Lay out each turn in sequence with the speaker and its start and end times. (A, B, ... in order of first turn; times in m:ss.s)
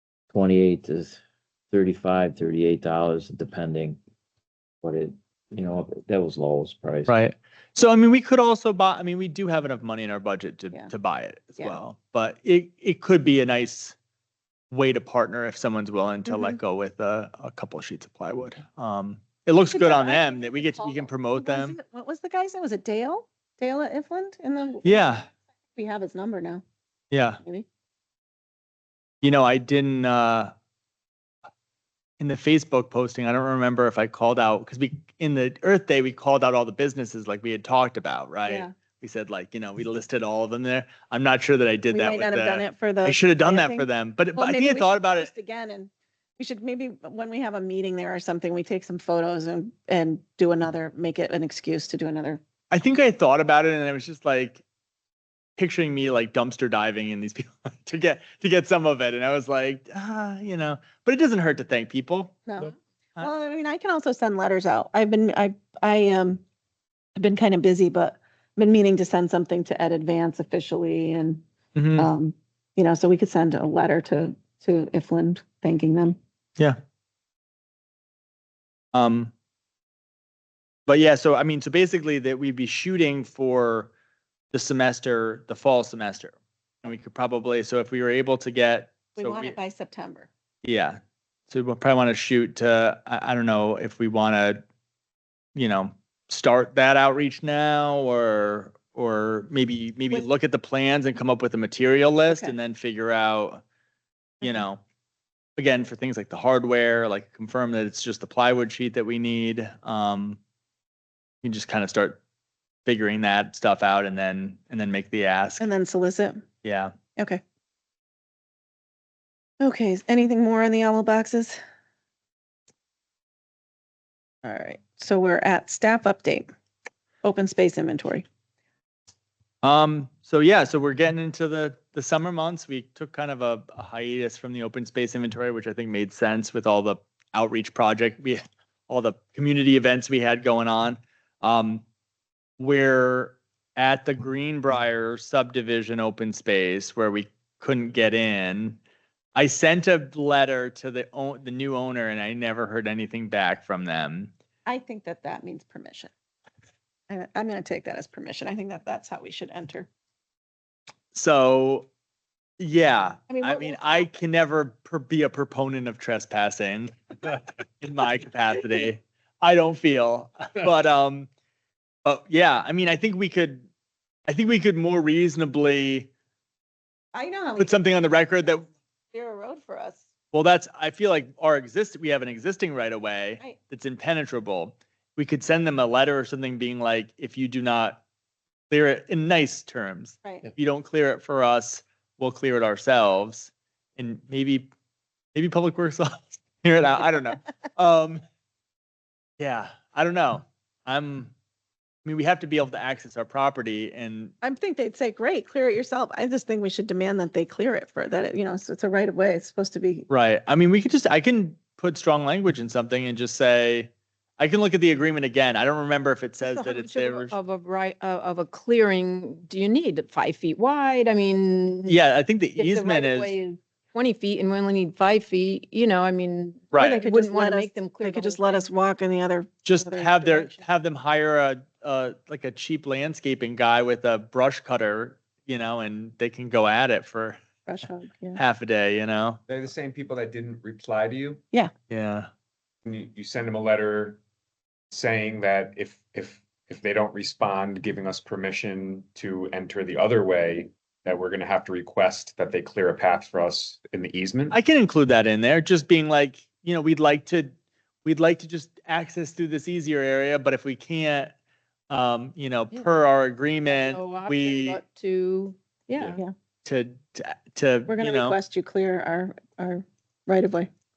0:00.3-0:01.2 A
0:01.7-0:04.0 A
0:04.8-0:07.1 A
0:07.1-0:13.9 B
0:14.7-0:21.8 B
0:16.3-0:16.6 C
0:19.7-0:25.2 C
0:24.8-0:25.2 B
0:25.7-0:26.6 C
0:27.1-0:27.4 B
0:29.2-0:30.5 B
0:32.2-0:45.3 B
0:38.4-0:38.7 C
0:41.9-0:52.4 C
0:52.7-0:54.6 B
0:55.6-1:02.5 B
1:02.5-1:06.4 C
1:07.2-1:11.4 C
1:11.7-1:12.1 B
1:12.0-1:16.2 C
1:18.9-1:19.3 B
1:20.9-1:23.9 B
1:24.5-1:29.6 B
1:29.2-1:30.3 C
1:30.6-1:31.0 B
1:31.5-1:34.6 B
1:35.5-1:43.6 B
1:42.2-1:42.5 C
1:44.4-1:44.8 B
1:45.6-1:50.4 B
1:51.4-1:52.2 B
1:52.8-1:55.6 B
1:55.6-1:56.4 C
1:56.6-1:56.9 B
1:59.6-2:01.6 C
2:04.4-2:06.5 C
2:07.2-2:08.2 C
2:09.6-2:21.8 B
2:22.6-2:28.8 B
2:29.3-2:34.3 B
2:34.6-2:36.1 C
2:37.1-2:39.9 C
2:41.1-2:41.9 B
2:42.6-2:51.3 B
2:43.3-2:44.1 C
2:52.0-2:53.7 B
2:54.3-2:56.1 B
2:57.1-2:57.8 C
2:57.6-2:58.6 B
2:59.1-3:00.0 C
3:00.3-3:08.0 B
3:08.7-3:14.7 B
3:10.2-3:10.5 C
3:15.3-3:18.2 B
3:19.4-3:21.3 B
3:22.0-3:24.3 B
3:24.4-3:30.1 C
3:30.1-3:37.3 B
3:36.4-3:42.0 D
3:41.8-3:43.4 B
3:42.5-3:48.6 D
3:46.7-3:47.0 B
3:46.8-3:50.6 C
3:49.6-3:57.4 B
3:57.6-3:58.4 C
3:58.3-3:59.4 B
3:59.5-4:01.4 E
4:01.9-4:02.3 B
4:02.8-4:04.2 E
4:04.9-4:14.6 E
4:14.5-4:17.5 B
4:18.0-4:21.3 B
4:21.9-4:24.8 B
4:23.6-4:26.2 D
4:26.6-4:28.4 B
4:27.9-4:30.7 C